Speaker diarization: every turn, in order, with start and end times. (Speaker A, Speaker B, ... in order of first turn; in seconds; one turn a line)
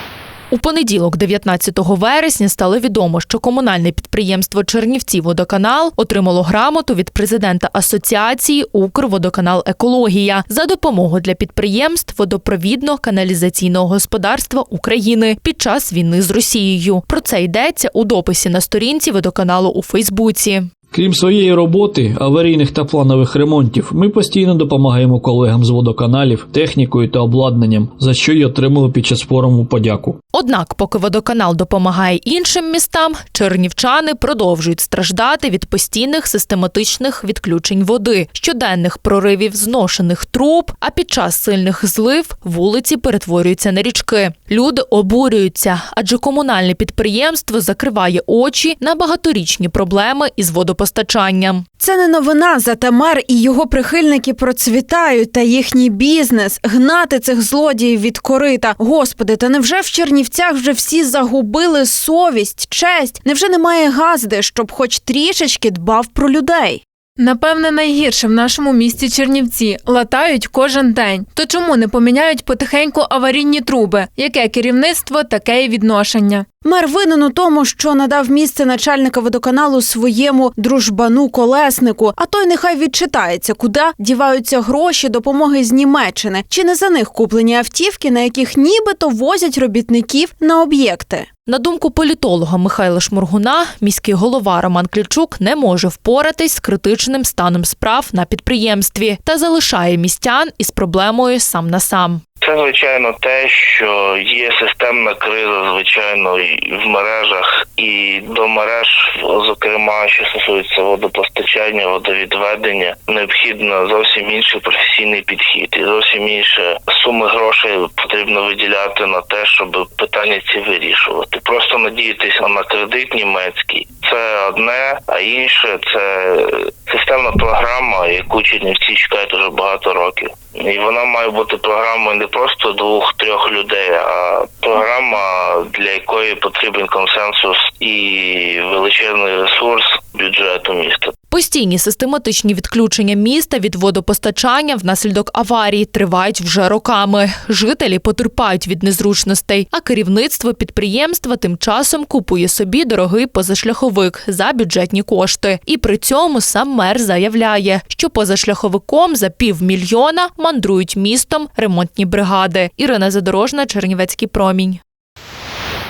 Speaker A: 0.5-20.7
Speaker B: 20.9-30.2
Speaker A: 30.3-51.7
Speaker C: 51.8-66.8
Speaker D: 67.2-76.5
Speaker C: 76.6-91.3
Speaker A: 91.5-102.2
Speaker E: 102.4-141.1
Speaker A: 141.3-164.8